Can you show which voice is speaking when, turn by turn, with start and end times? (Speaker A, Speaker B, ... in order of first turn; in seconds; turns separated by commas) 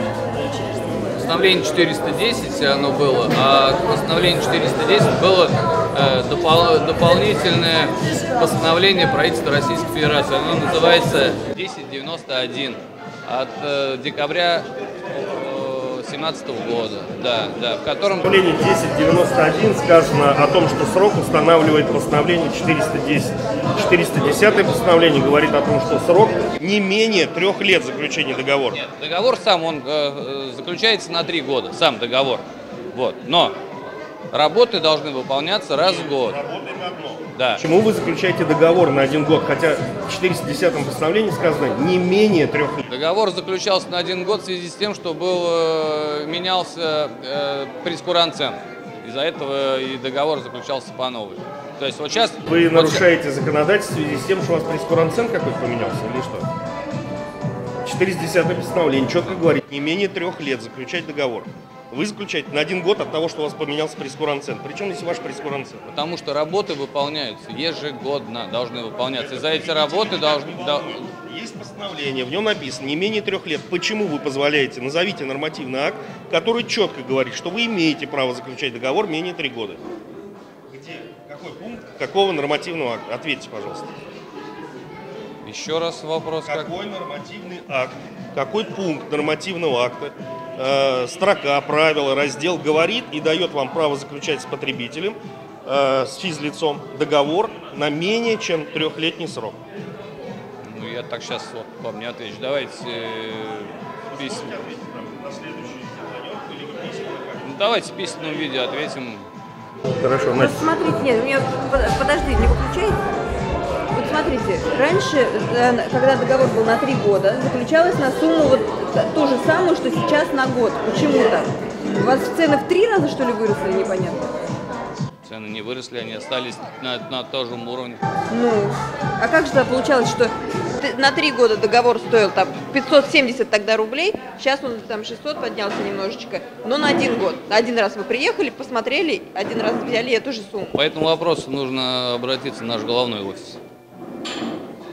Speaker A: 1.1-18.3, Speaker B: 18.2-28.8, Speaker A: 28.8-33.5, Speaker A: 34.3-36.4, Speaker B: 35.8-42.8, Speaker A: 37.3-37.6, Speaker A: 42.9-53.0, Speaker B: 52.4-56.5, Speaker B: 57.8-65.8, Speaker A: 65.9-71.0, Speaker B: 69.1-79.8, Speaker B: 80.7-83.9, Speaker A: 85.4-86.7, Speaker B: 86.5-99.6, Speaker A: 100.6-104.5, Speaker B: 104.1-107.5, Speaker A: 107.4-109.3, Speaker B: 109.9-110.6, Speaker C: 110.3-113.0, Speaker C: 113.9-124.3, Speaker A: 125.2-128.0, Speaker C: 128.3-140.7, Speaker A: 140.7-143.6